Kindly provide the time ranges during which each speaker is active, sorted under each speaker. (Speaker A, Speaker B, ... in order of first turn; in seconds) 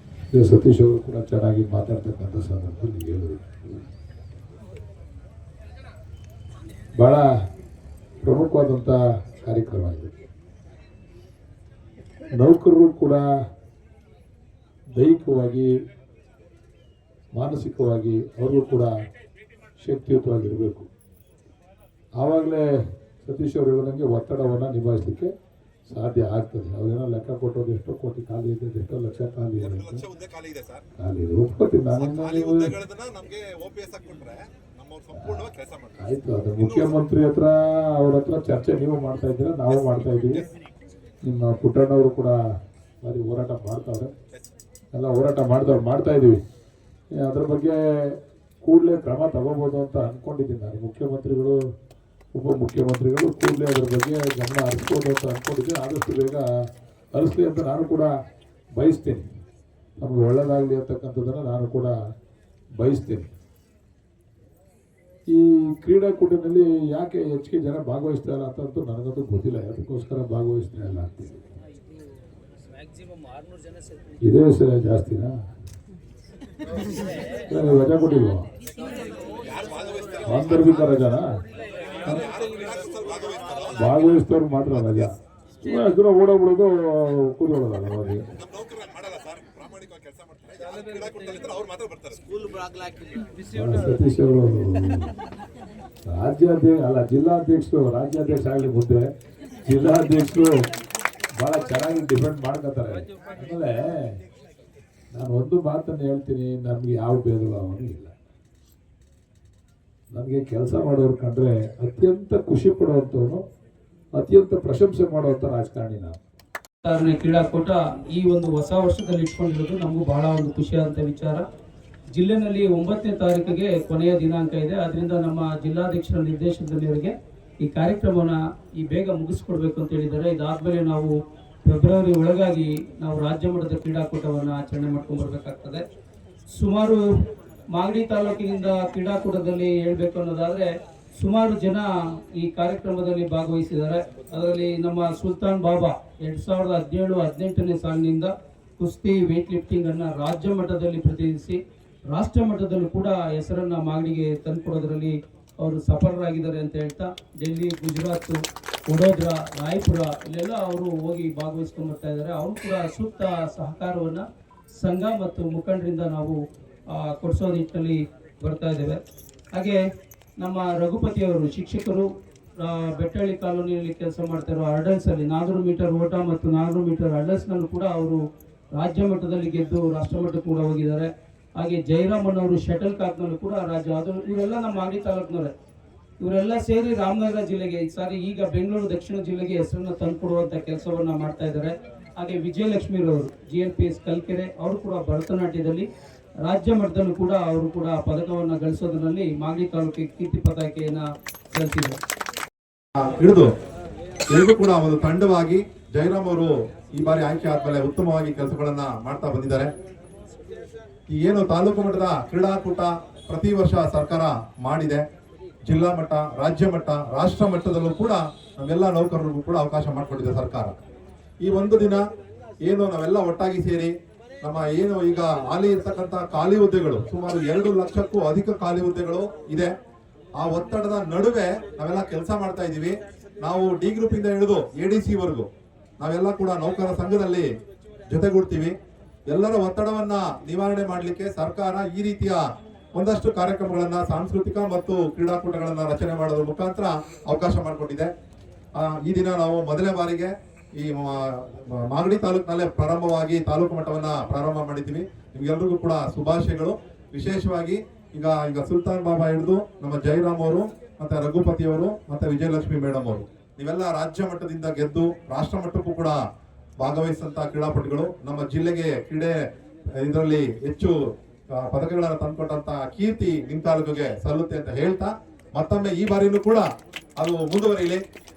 Speaker A: 0.3-3.8, 7.0-7.3, 8.2-10.1, 12.3-13.2, 14.9-15.7, 17.4-18.9, 19.8-20.9, 22.2-22.6, 23.2-25.3, 25.9-30.0, 31.0-32.7, 35.1-35.4, 36.0-40.5, 41.2-42.3, 43.0-44.1, 44.9-46.4, 47.2-48.1, 48.6-51.6, 52.3-56.4, 57.1-58.1, 58.8-59.2, 60.0-61.9, 62.8-63.3, 65.3-71.5, 74.2-75.3, 77.5-78.5, 80.2-81.2, 83.8-88.3, 93.5-95.1, 96.1-99.0, 99.6-100.5, 101.4-104.2, 105.1-108.1, 110.1-113.4, 114.2-116.2
Speaker B: 29.6-30.8, 31.9-36.0, 36.6-37.0, 79.4-80.7, 82.1-83.9, 88.4-92.3, 203.0-203.5, 204.3-209.7, 211.1-215.0, 215.7-220.8, 221.4-222.0, 222.6-229.7, 230.4-237.5, 238.1-238.8, 239.3-242.4, 242.9-248.1, 248.8-266.2, 266.8-271.0, 271.5-276.7, 277.2-278.0
Speaker C: 116.8-121.4, 122.2-131.1, 131.6-135.8, 136.5-137.0, 137.7-151.6, 152.1-164.2, 164.8-166.3, 166.9-169.0, 169.5-169.8, 170.4-172.1, 172.6-178.2, 178.7-185.5, 186.2-195.8, 196.4-202.0